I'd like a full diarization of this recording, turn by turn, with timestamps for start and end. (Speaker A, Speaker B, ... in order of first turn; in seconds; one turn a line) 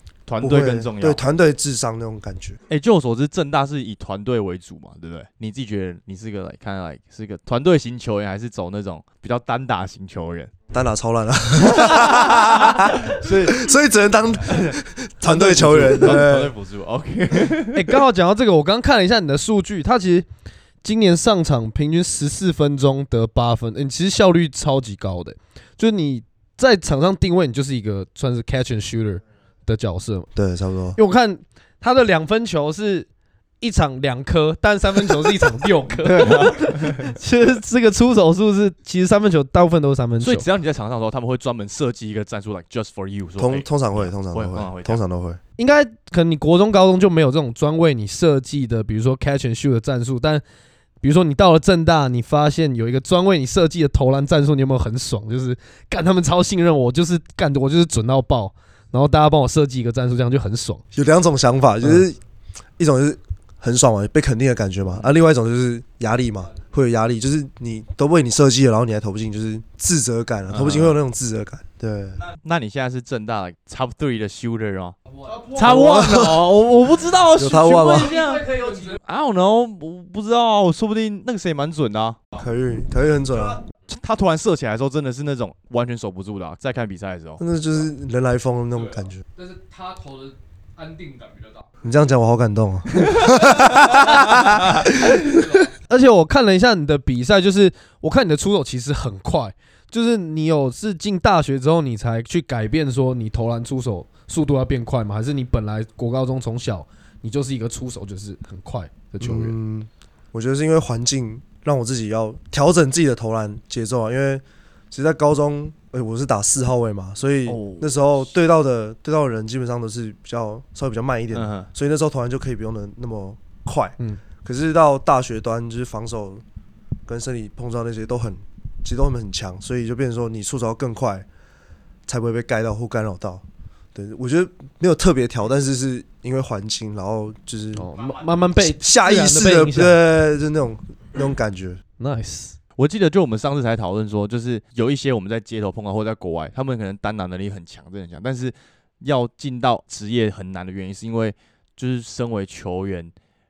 Speaker A: 0.3-1.2
Speaker B: 0.4-2.6
Speaker A: 2.7-10.5
Speaker B: 10.7-16.5
Speaker A: 11.6-13.7
Speaker A: 14.4-18.0
Speaker C: 17.7-20.3
Speaker C: 20.8-30.3
Speaker B: 30.3-31.0
Speaker C: 30.9-33.1
Speaker C: 33.6-40.5
Speaker A: 36.0-37.1
Speaker A: 40.2-45.0
Speaker B: 43.4-45.4
Speaker C: 45.6-50.4
Speaker C: 51.0-60.8
Speaker B: 60.9-62.2
Speaker B: 62.8-72.2
Speaker A: 70.5-71.0
Speaker A: 72.2-75.0
Speaker A: 75.5-82.2
Speaker B: 75.6-76.5
Speaker B: 77.3-78.2
Speaker B: 82.3-83.6
Speaker A: 83.9-87.4
Speaker B: 87.4-89.2
Speaker D: 88.7-91.7
Speaker B: 91.8-95.2
Speaker D: 93.2-95.7
Speaker C: 95.9-109.5
Speaker B: 109.2-126.4
Speaker A: 117.5-118.2
Speaker A: 121.3-121.7
Speaker B: 127.0-131.3
Speaker B: 132.1-137.9
Speaker C: 137.7-140.0
Speaker B: 138.6-141.8
Speaker C: 142.0-142.6
Speaker A: 142.8-153.1